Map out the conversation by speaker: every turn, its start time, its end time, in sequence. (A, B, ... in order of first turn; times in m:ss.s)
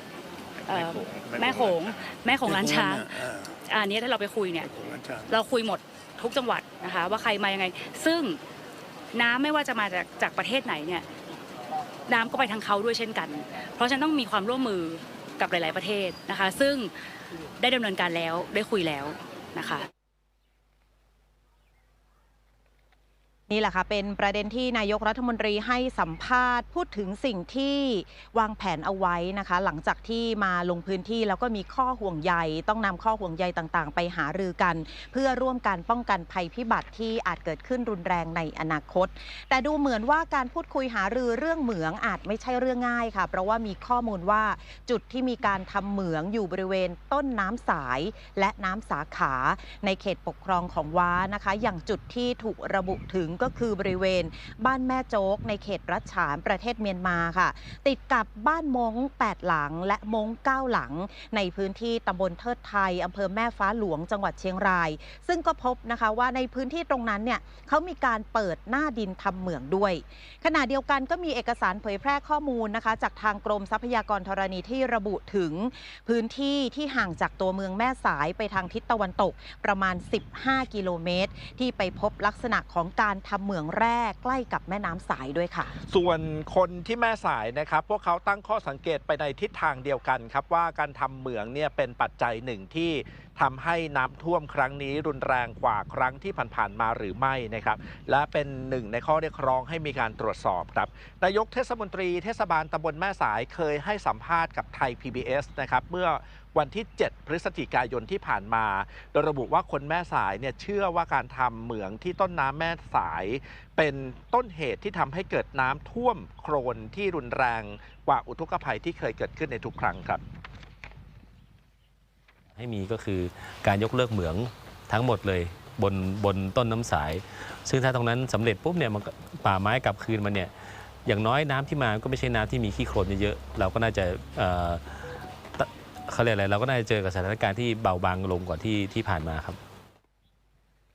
0:00.7-0:01.9 A
0:00.7-0:04.7 B
0:02.4-0:03.6 A
0:04.6-0:05.3 A
0:05.3-0:08.4 B
0:09.1-0:11.0 B
0:12.1-0:16.9 B
0:17.6-0:19.8 B
0:23.5-1:25.8 C
1:25.9-2:00.2 D
2:02.5-2:10.5 E
2:11.0-2:19.6 E